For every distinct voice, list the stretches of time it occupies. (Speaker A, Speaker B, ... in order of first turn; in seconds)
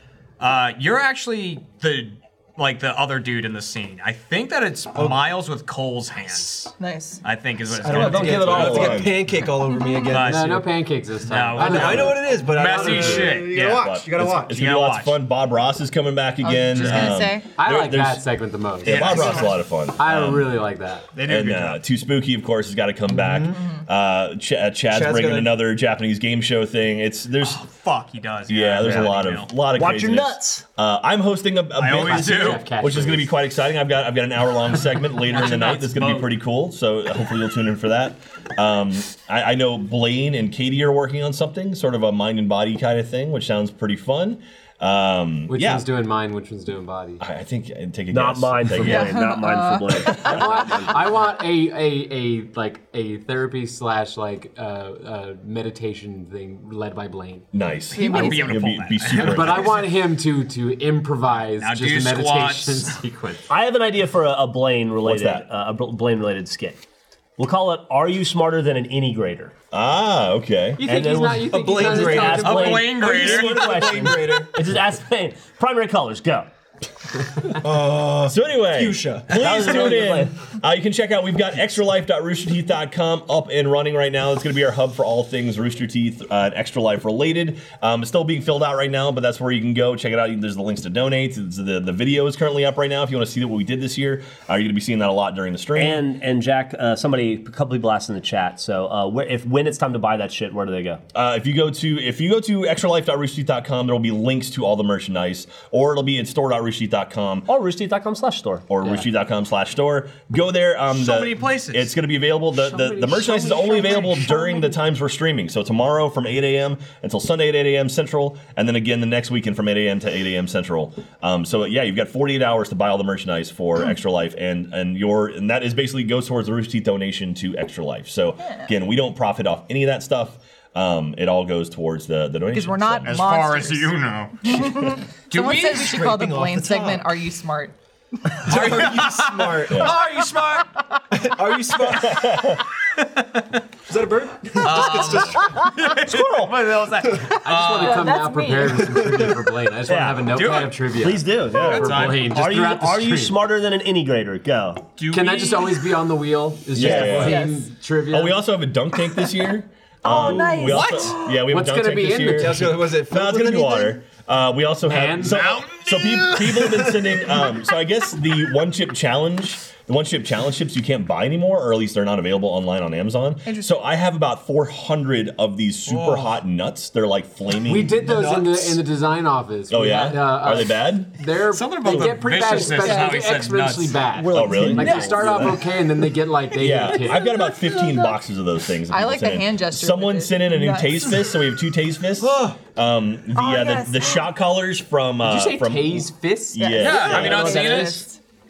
Speaker A: 0.4-6.7, 7.2-9.0, 10.1-10.6, 11.2-13.9, 14.5-15.1, 16.8-17.1, 18.8-19.5, 21.1-21.8, 27.4-29.5, 31.8-32.7, 35.3-36.3, 58.0-59.9, 61.6-63.0, 72.0-73.8, 110.9-111.9, 133.1-134.7, 138.4-140.6, 143.0-143.4, 144.6-148.2, 150.3-150.8, 151.6-152.6, 155.0-155.9, 160.6-161.2, 165.2-166.8, 181.5-184.0, 196.8-198.1
Speaker B: 4.9-5.2, 7.8-10.7, 11.6-14.5, 23.1-23.6, 24.9-25.6, 71.5-74.6, 77.5-79.9, 135.3-137.0, 138.4-142.5, 143.9-145.6, 148.9-149.3, 162.4-164.0, 166.6-167.0, 175.8-176.4, 178.0-178.8, 192.2-192.6
Speaker C: 6.8-7.2, 9.7-10.1, 16.4-17.4, 48.8-50.5, 57.9-58.6, 128.4-128.7, 132.5-137.7, 147.7-149.0, 157.0-157.6, 160.1-161.3, 173.4-173.8, 182.7-183.3, 184.3-185.2, 186.9-188.2, 188.9-191.3, 193.3-194.3, 196.6-198.2
Speaker D: 7.9-9.1, 29.7-30.6, 48.1-50.9, 63.5-66.8, 67.4-69.5, 70.8-76.5, 79.3-80.3, 95.7-101.0, 107.5-108.8, 145.9-146.7, 149.8-150.4, 150.9-154.9, 160.1-160.6
Speaker E: 8.0-9.2, 13.4-18.2, 18.8-20.6, 21.2-27.6, 28.5-45.9, 47.2-49.2, 50.1-50.5, 57.5-59.9, 65.0-65.4, 69.7-70.8, 78.3-96.0, 101.1-107.5, 108.7-133.2, 139.7-140.0, 141.8-142.6, 156.7-157.5, 158.1-178.2, 179.7-181.1, 184.3-185.6, 186.5-197.8
Speaker F: 10.2-13.5, 17.4-21.1, 31.9-33.4, 45.5-47.2, 50.2-57.5, 59.1-63.5, 70.8-72.8, 112.5-114.6, 147.4-153.4, 155.1-158.4, 161.3-162.7, 164.8-165.6, 177.6-187.3, 195.2-198.0